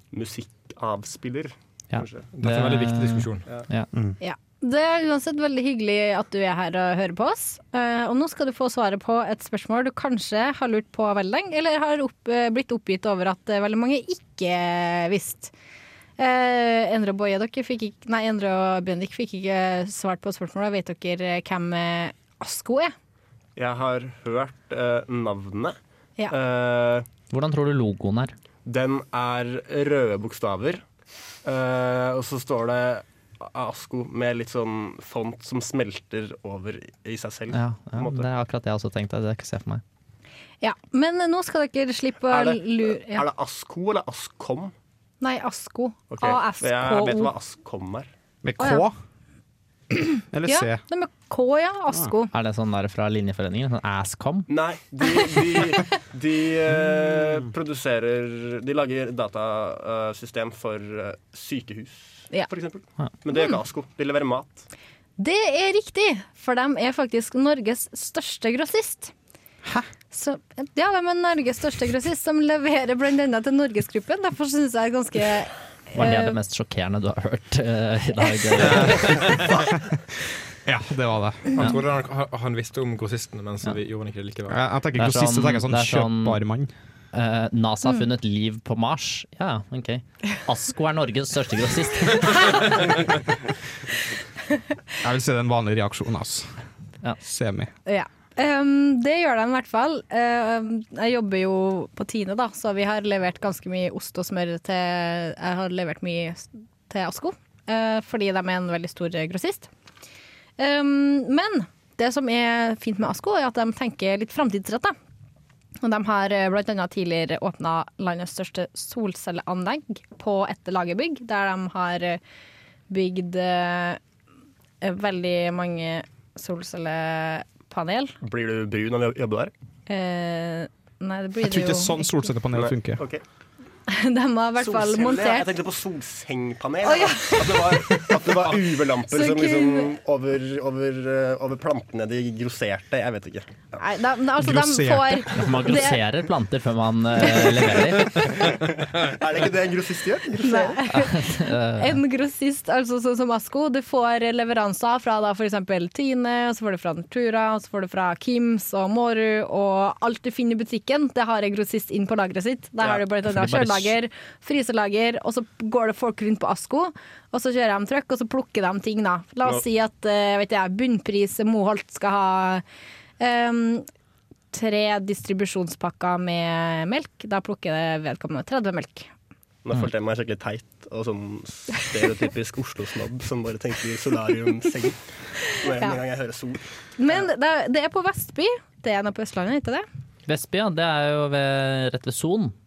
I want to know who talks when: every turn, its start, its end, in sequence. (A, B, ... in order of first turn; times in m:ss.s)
0:00.1-0:02.3 A
0:01.9-0:03.9 B
0:02.3-0:03.5 C
0:04.2-0:15.5 D
0:16.2-0:22.9 D
0:23.6-0:25.8 A
0:26.3-0:27.1 A
0:27.3-0:28.3 B
0:28.7-0:30.8 A
0:31.4-0:38.3 A
0:37.5-0:39.8 B
0:40.6-0:43.2 D
0:42.3-0:44.7 A
0:45.2-0:47.3 D
0:46.1-0:48.1 A
0:48.4-0:49.0 E
0:48.6-0:48.9 D
0:50.0-0:52.3 D
0:50.3-0:50.8 E
0:52.3-0:54.5 B
0:54.5-1:04.7 A
1:05.2-1:09.1 D
1:10.1-1:16.4 D
1:16.0-1:19.4 B
1:18.8-1:19.5 C
1:20.6-1:21.7 E
1:21.5-1:24.6 C
1:24.5-1:26.7 E
1:25.0-1:26.4 B
1:27.1-1:32.8 B
1:35.0-1:36.5 E
1:37.2-1:37.7 E
1:37.9-1:49.7 D
1:50.6-1:55.0 D
1:55.8-2:02.2 D
2:02.9-2:04.0 D
2:04.8-2:08.2 D
2:08.2-2:09.5 A
2:09.9-2:12.2 D
2:11.4-2:13.0 E
2:12.5-2:13.2 A
2:13.9-2:15.6 D
2:14.6-2:23.6 A
2:16.8-2:18.1 D
2:19.1-2:20.0 D
2:23.8-2:26.0 D
2:24.4-2:25.3 E
2:25.3-2:28.4 B
2:27.2-2:27.8 D
2:28.2-2:30.8 A
2:30.4-2:52.6 D
2:30.9-2:32.0 B
2:43.3-2:43.9 B
2:53.2-2:53.9 D
2:54.5-2:59.1 D
2:59.6-3:05.0 A
3:05.6-3:07.3 A
3:05.7-3:06.0 D
3:07.0-3:09.8 D
3:10.3-3:12.6 B